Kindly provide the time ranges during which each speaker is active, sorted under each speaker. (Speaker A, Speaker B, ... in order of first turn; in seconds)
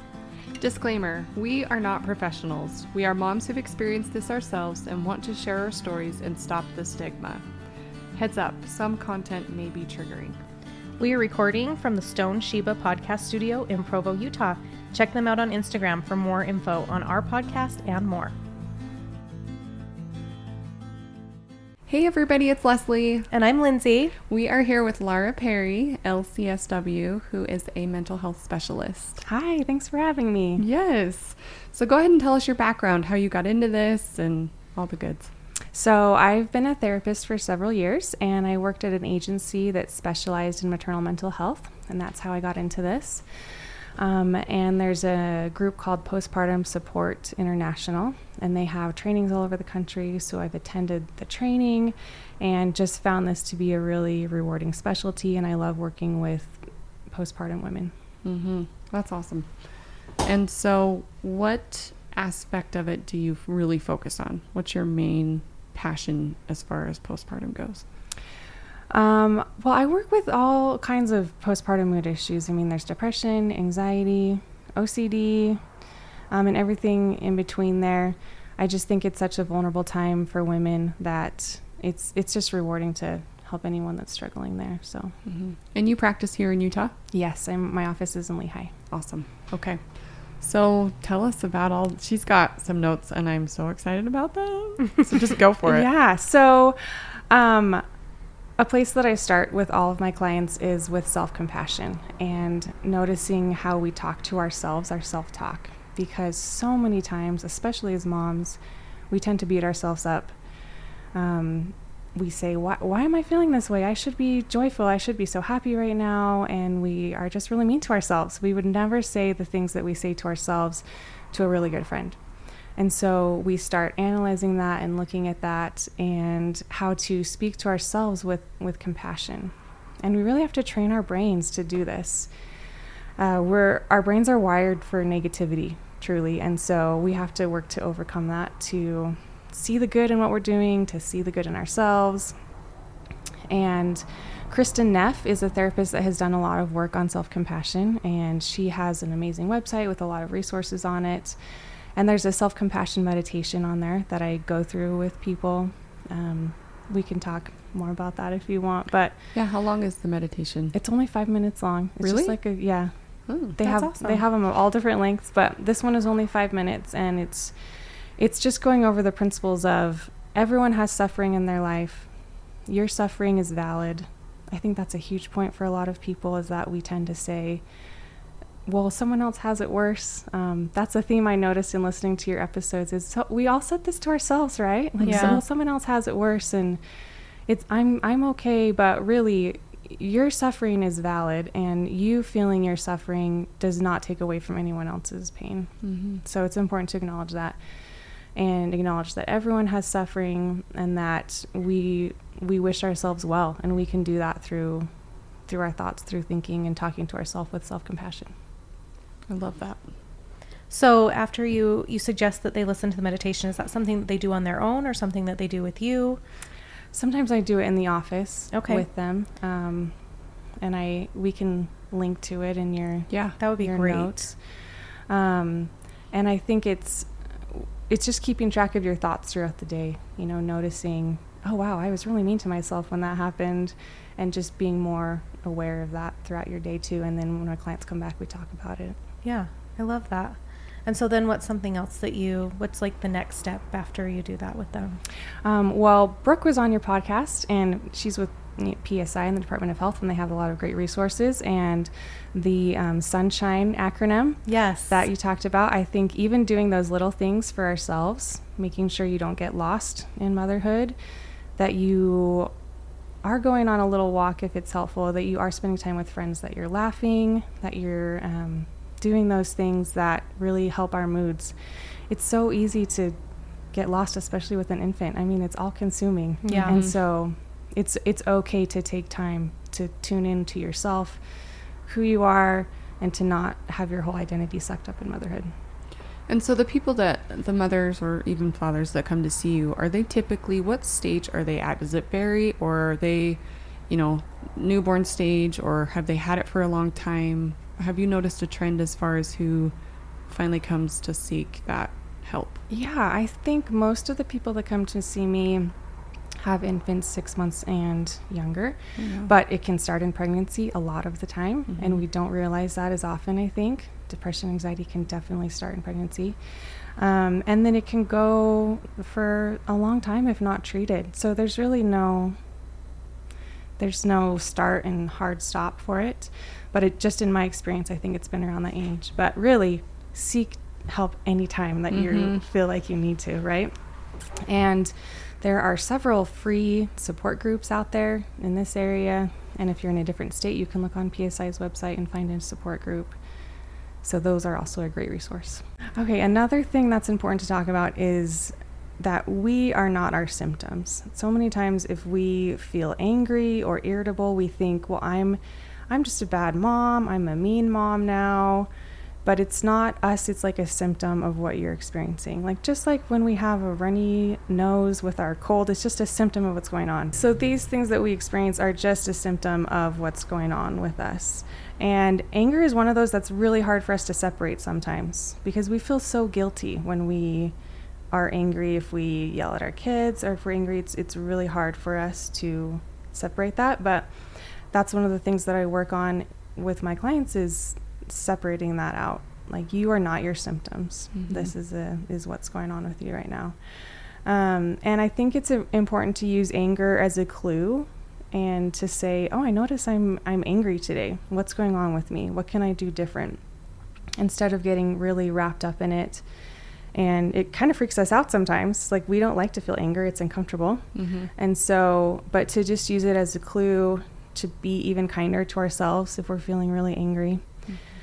Speaker A: 0.6-7.5, 8.1-10.4, 21.9-23.3, 24.3-29.2, 30.6-35.3, 58.2-67.8, 85.2-86.9, 88.9-95.9, 159.3-160.7, 162.0-162.3, 163.3-163.6, 185.0-185.4, 195.8-196.2, 209.3-209.9, 223.1-223.4, 276.5-276.9, 286.3-299.7, 300.3-302.6, 309.0-309.3, 311.7-312.0, 331.9-332.4, 391.1-391.5, 410.9-411.3
Speaker B: 11.0-18.3, 23.3-24.1, 163.6-164.2, 185.0-185.4, 210.7-216.2, 218.5-218.8, 223.4-224.3, 239.2-245.0, 254.4-255.0, 276.4-276.8
Speaker C: 29.2-30.6, 35.7-57.9, 68.9-75.6, 76.3-85.2, 87.1-88.7, 95.6-97.8, 98.6-108.6, 109.1-110.3, 111.1-122.2, 122.8-132.3, 133.2-142.3, 143.5-151.4, 151.9-159.2, 160.7-172.1, 172.7-177.6, 178.6-186.8, 187.4-197.6, 198.3-204.9, 205.4-208.3, 216.9-219.9, 220.6-224.4, 225.1-239.0, 245.4-260.9, 261.6-262.5, 263.2-271.6, 272.1-273.2, 273.7-281.2, 281.8-285.5, 302.7-305.7, 306.4-316.4, 316.9-322.4, 323.8-333.7, 334.3-343.2, 344.0-358.7, 359.2-377.5, 378.1-393.6, 394.2-403.4, 404.2-406.2, 406.9-417.4